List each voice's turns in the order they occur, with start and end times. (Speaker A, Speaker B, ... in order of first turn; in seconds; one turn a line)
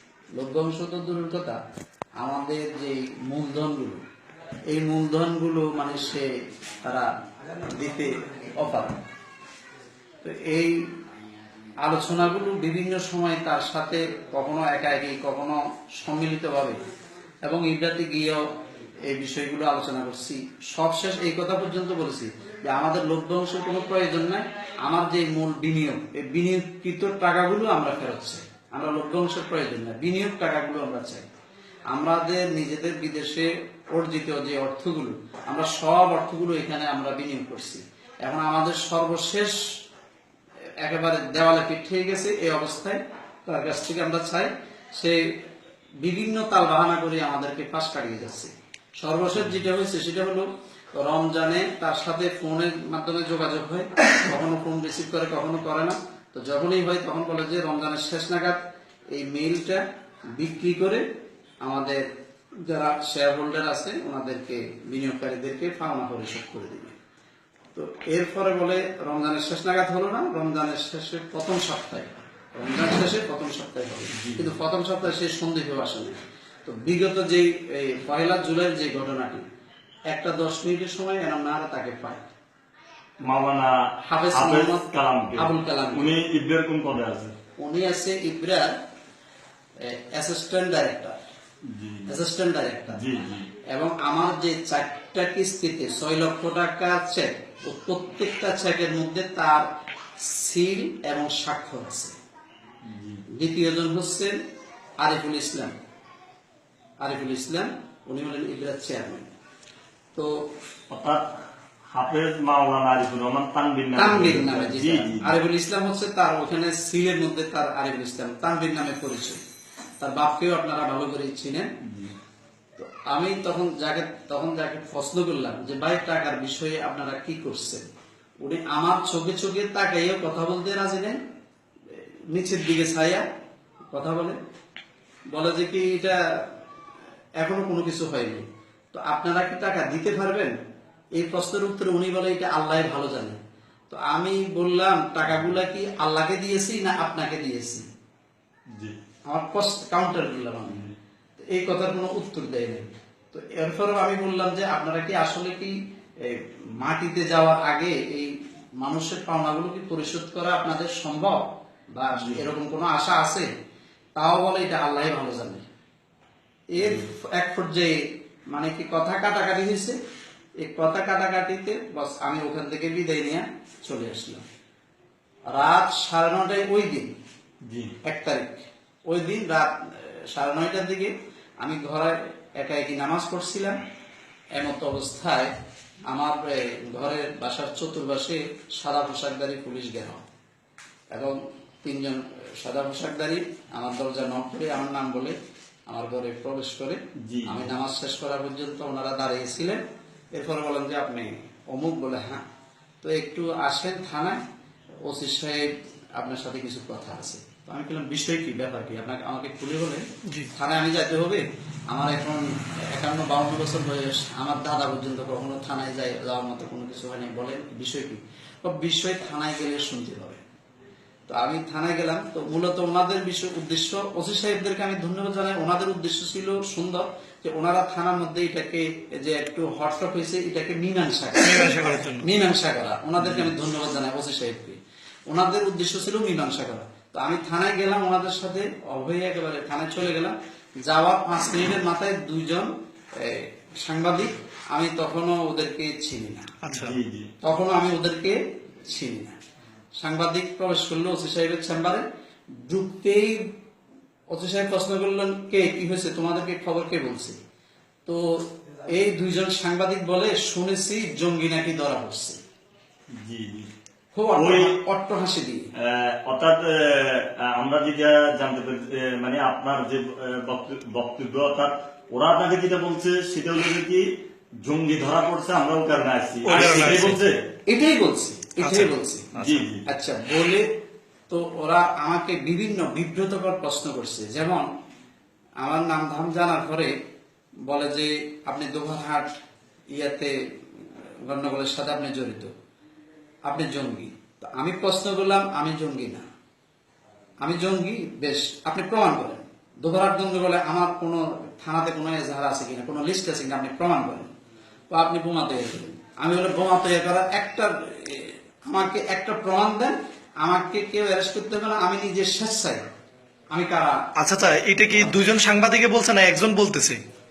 Speaker A: 0.4-1.6
Speaker A: 2.2-4.0
Speaker A: 4.7-6.3
Speaker A: 7.7-9.0
Speaker A: 10.2-10.8
Speaker A: 11.8-16.8
Speaker A: 17.4-18.4
Speaker A: 19.1-31.2
Speaker A: 31.9-39.6
Speaker A: 40.8-45.2
Speaker A: 46.0-58.6
Speaker A: 59.1-59.8
Speaker A: 60.4-61.0
Speaker A: 61.6-62.1
Speaker A: 62.7-67.0
Speaker A: 67.8-79.4
Speaker B: 74.2-74.5
Speaker A: 80.1-82.2
Speaker B: 83.2-83.8
Speaker A: 84.0-86.1
Speaker B: 84.3-87.3
Speaker A: 87.6-88.8
Speaker A: 89.8-91.2
Speaker B: 91.7-92.1
Speaker A: 92.1-93.0
Speaker B: 92.9-93.5
Speaker A: 93.7-99.7
Speaker A: 100.2-102.1
Speaker B: 102.8-103.2
Speaker A: 103.3-104.4
Speaker A: 105.0-105.7
Speaker A: 107.0-109.3
Speaker B: 110.9-111.3
Speaker B: 111.9-115.3
Speaker A: 114.0-119.4
Speaker A: 120.0-121.7
Speaker B: 121.8-122.1
Speaker A: 122.8-127.8
Speaker A: 128.4-131.2
Speaker A: 131.9-133.3
Speaker A: 133.9-134.4
Speaker A: 135.3-136.2
Speaker A: 137.4-140.5
Speaker A: 141.2-143.4
Speaker A: 143.9-147.9
Speaker B: 145.3-145.6
Speaker A: 149.3-150.8
Speaker B: 150.7-150.9
Speaker A: 151.5-163.5
Speaker B: 162.2-162.5
Speaker A: 164.2-165.6
Speaker A: 166.7-168.0
Speaker B: 166.8-167.1
Speaker A: 168.5-170.0
Speaker A: 170.6-174.4
Speaker A: 175.5-177.1
Speaker A: 178.0-183.8
Speaker A: 184.6-185.5
Speaker A: 186.1-190.2
Speaker A: 191.1-195.4
Speaker A: 195.9-199.8
Speaker B: 197.2-197.7
Speaker A: 200.3-202.4
Speaker A: 203.0-204.4
Speaker A: 205.1-210.0
Speaker A: 210.6-220.4
Speaker A: 221.3-234.8
Speaker C: 231.4-232.3
Speaker B: 233.2-233.5
Speaker A: 235.3-246.5
Speaker C: 246.6-247.0
Speaker B: 246.7-247.3
Speaker A: 247.4-249.4
Speaker A: 250.0-252.1
Speaker A: 252.6-253.5
Speaker A: 254.3-257.4
Speaker A: 258.1-262.4
Speaker B: 263.1-263.7
Speaker A: 264.1-265.7
Speaker B: 264.4-264.8
Speaker B: 265.8-274.1
Speaker B: 274.6-277.4
Speaker C: 276.4-277.2
Speaker A: 277.7-279.3
Speaker C: 278.6-279.7
Speaker B: 279.4-279.8
Speaker A: 279.9-280.7
Speaker A: 281.3-284.7
Speaker A: 285.6-286.9
Speaker A: 287.7-289.3
Speaker A: 289.9-292.5
Speaker A: 293.5-296.2
Speaker A: 297.4-304.3
Speaker A: 304.9-312.9
Speaker A: 313.5-314.0
Speaker C: 314.2-317.0